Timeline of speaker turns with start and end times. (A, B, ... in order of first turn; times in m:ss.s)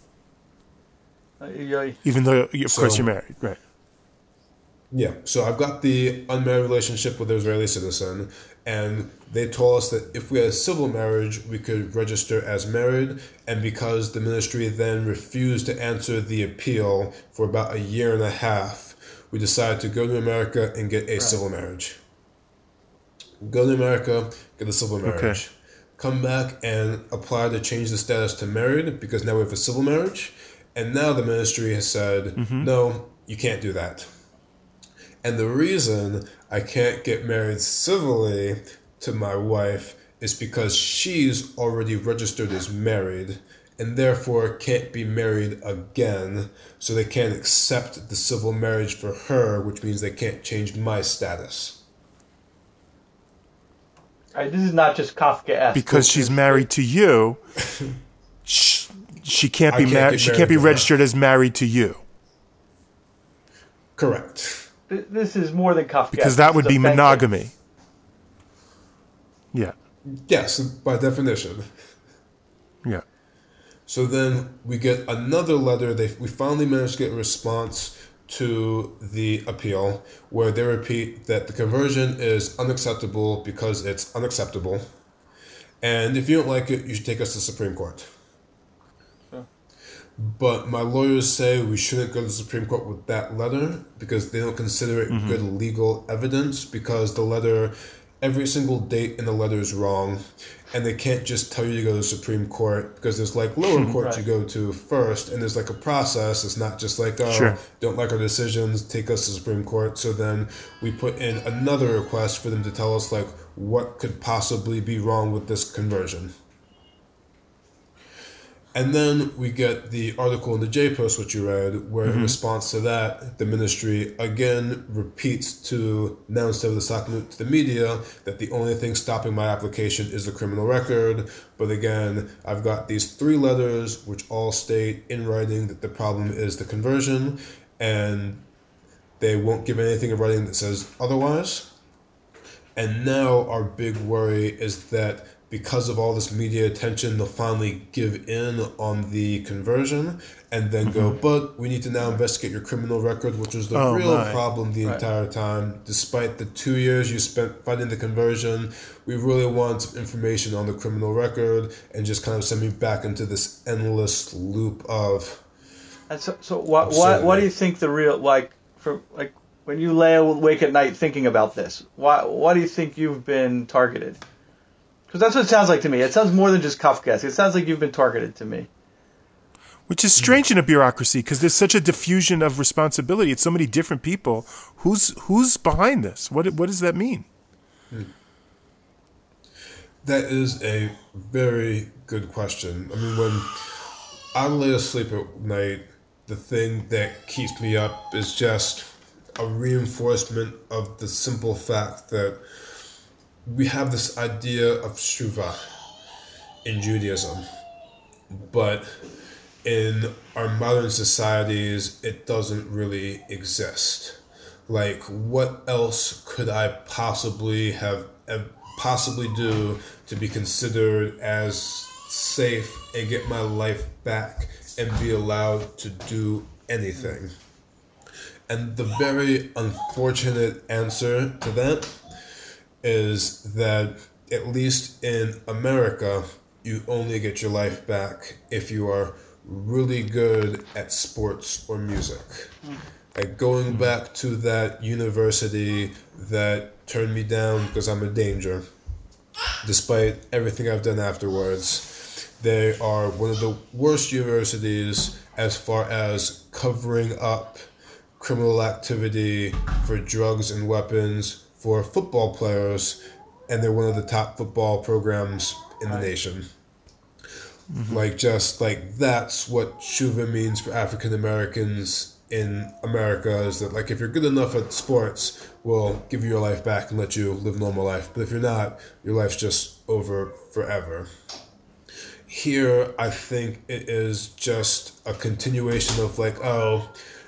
0:01.4-0:02.0 A
0:02.0-0:03.6 B
0:02.7-0:03.1 C
0:04.9-0:22.0 C
0:23.4-0:34.1 C
0:25.0-0:25.4 B
0:32.4-0:32.7 B
0:35.2-0:51.8 C
0:54.4-0:56.7 A
0:55.8-0:57.4 B
0:58.5-1:02.0 B
0:59.7-1:00.9 C
1:04.0-1:04.7 C
1:04.9-1:07.2 A
1:06.1-1:07.5 B
1:10.1-1:11.9 C
1:13.9-1:24.8 C
1:25.8-1:28.1 C
1:30.2-1:56.3 C
1:35.1-1:35.4 B
1:43.7-1:44.0 B
1:47.3-1:47.6 B
1:58.7-2:18.5 C
2:02.1-2:02.4 B
2:19.2-2:21.7 C
2:22.8-2:45.4 C
2:30.8-2:31.2 B
2:33.7-2:34.4 B
2:46.1-2:54.2 A
2:46.8-2:47.5 C
2:55.1-2:58.7 A
2:59.9-3:07.3 B
3:10.0-3:22.4 C
3:23.4-3:25.7 C
3:26.6-3:27.5 C
3:28.3-3:29.1 C
3:29.6-3:47.3 C
3:48.5-3:52.0 C
3:52.8-4:02.5 C
4:03.1-4:08.6 C
4:09.6-4:17.6 C
4:18.2-4:26.5 C
4:27.7-4:28.0 B
4:27.9-4:41.1 C
4:42.3-4:46.9 C